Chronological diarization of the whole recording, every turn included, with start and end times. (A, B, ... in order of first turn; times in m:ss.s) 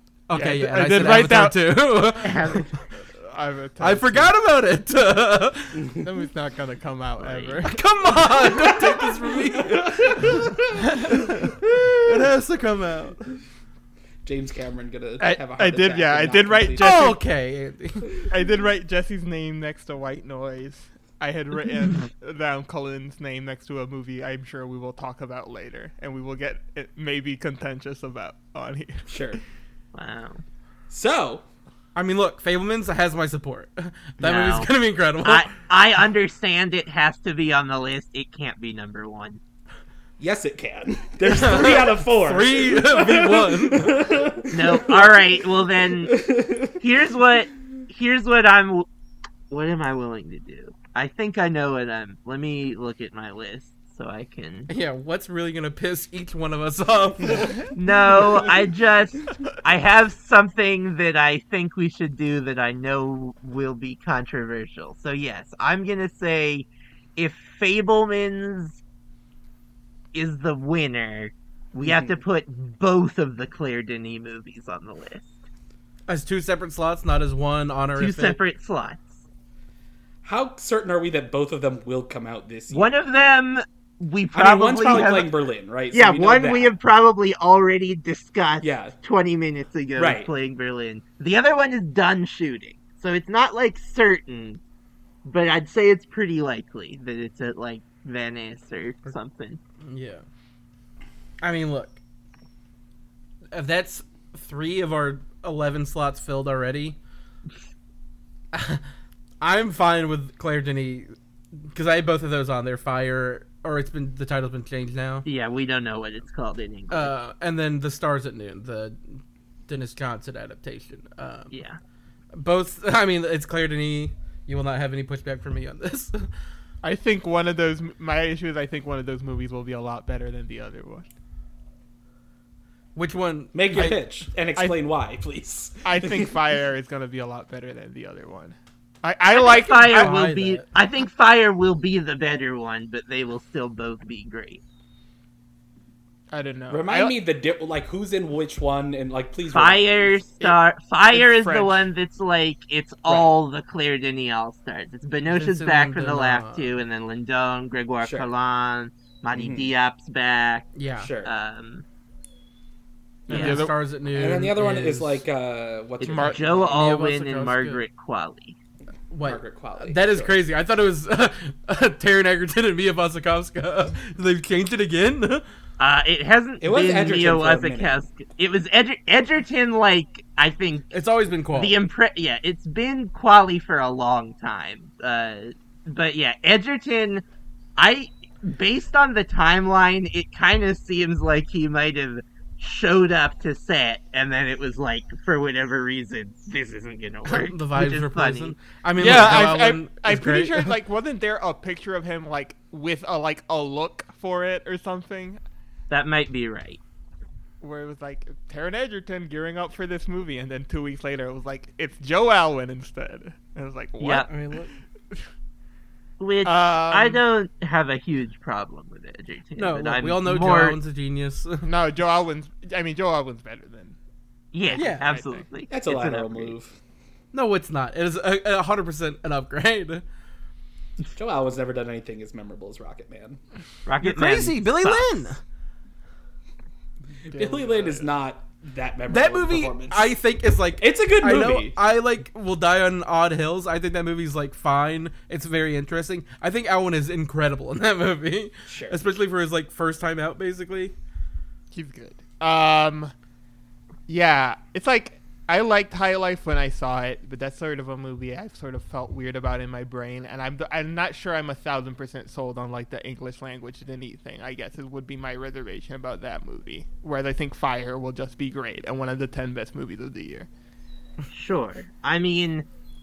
0:00.3-0:02.7 A
0:00.3-0:01.7 B
0:02.2-0:02.7 C
0:03.0-0:04.3 B
0:03.8-0:06.0 A
0:06.0-0:07.8 B
0:07.2-0:07.6 C
0:07.6-0:13.4 A
0:08.4-0:10.7 D
0:14.2-0:16.9 D
0:15.2-0:17.2 B
0:16.8-0:18.2 A
0:18.3-0:29.2 B
0:29.1-0:29.4 D
0:29.9-0:30.4 C
0:30.9-0:31.4 D
0:31.9-0:35.5 A
0:34.2-0:34.7 C
0:35.2-0:39.4 C
0:40.2-0:46.8 D
0:41.2-0:44.0 A
0:44.5-0:46.2 C
0:46.7-0:48.9 C
0:49.5-0:54.7 C
0:54.7-0:57.7 A
0:57.7-1:08.8 C
1:10.1-1:15.3 C
1:16.1-1:18.4 A
1:18.0-1:19.2 C
1:20.2-1:22.9 D
1:22.7-1:25.3 C
1:24.3-1:26.7 D
1:25.9-1:34.6 C
1:28.6-1:28.9 D
1:30.0-1:30.3 D
1:35.2-1:39.6 C
1:39.8-1:40.2 A
1:41.4-1:42.0 A
1:43.5-1:47.0 A
1:48.5-1:48.8 A
1:49.4-1:51.1 A
1:51.7-1:55.2 A
1:55.2-1:57.1 C
1:56.9-2:01.5 A
2:01.5-2:01.8 C
2:02.3-2:06.3 A
2:06.8-2:11.1 B
2:13.0-2:14.0 A
2:13.5-2:16.3 D
2:15.8-2:20.2 B
2:19.3-2:24.6 C
2:19.8-2:20.6 A
2:26.3-2:27.2 B
2:26.7-2:30.2 D
2:29.5-2:40.7 C
2:31.1-2:31.8 B
2:35.3-2:36.8 A
2:38.0-2:38.3 D
2:39.3-2:39.7 D
2:40.8-2:41.1 A
2:41.0-2:41.3 D
2:41.2-2:41.8 C
2:43.3-2:43.7 B
2:43.3-2:43.6 C
2:43.3-2:45.2 A
2:44.1-2:46.8 D
2:46.0-2:48.6 C
2:46.0-2:46.4 B
2:46.2-2:47.8 A
2:49.1-2:55.4 A
2:49.2-2:50.4 D
2:55.8-3:00.9 C
2:56.6-2:58.0 D
3:00.9-3:01.8 A
3:01.5-3:07.2 C
3:07.8-3:18.6 C
3:17.2-3:20.8 A
3:19.0-3:25.4 B
3:25.9-3:26.8 C
3:27.6-3:34.3 B
3:34.0-3:34.3 C
3:34.2-3:34.7 A
3:36.2-3:40.8 C
3:36.4-3:37.2 B
3:39.6-3:41.7 A
3:41.6-3:44.0 B
3:44.5-3:46.6 C
3:44.6-3:45.4 B
3:44.7-3:45.1 A
3:45.7-3:46.8 D
3:47.3-3:50.0 A
3:51.2-3:53.4 D
3:53.8-3:55.3 C
3:54.0-3:55.4 A
3:57.2-4:00.1 D
3:57.3-3:58.1 B
3:59.1-4:10.9 A
4:00.8-4:01.8 D
4:08.7-4:09.0 D
4:11.7-4:13.1 B
4:14.1-4:30.5 B
4:31.3-4:32.6 C